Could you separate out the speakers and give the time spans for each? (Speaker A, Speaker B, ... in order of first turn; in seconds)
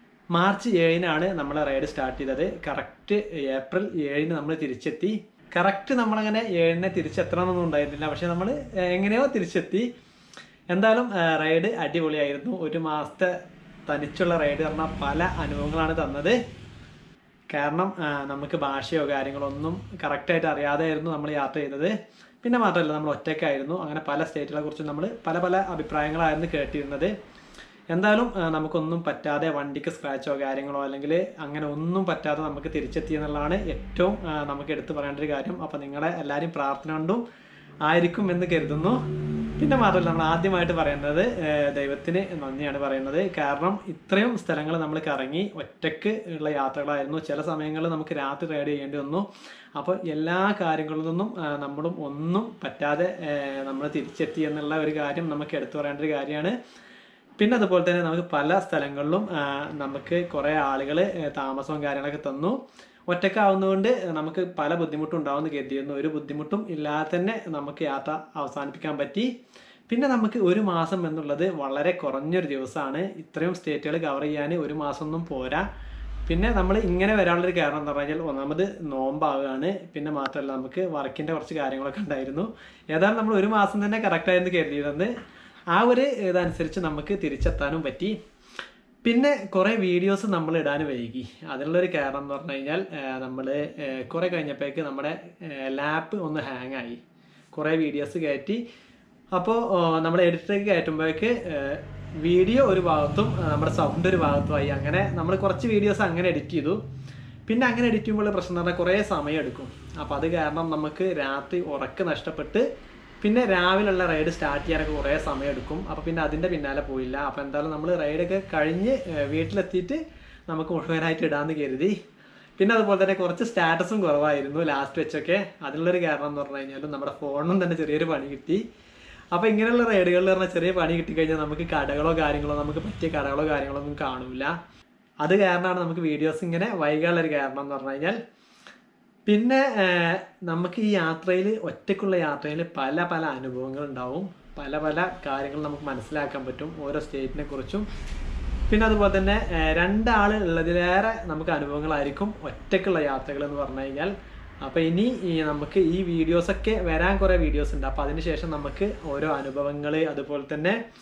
Speaker A: 0.3-9.9, 10.7-13.3, 13.9-16.4, 17.5-27.1, 27.9-37.2, 37.8-39.0, 39.6-56.5, 57.4-62.6, 63.1-69.3, 69.9-75.7, 76.3-85.1, 85.7-88.2, 89.0-97.0, 97.5-98.6, 99.3-106.8, 107.5-112.7, 113.2-122.0, 122.6-128.6, 129.3-134.5, 135.2-138.2, 139.3-147.8, 148.7-160.8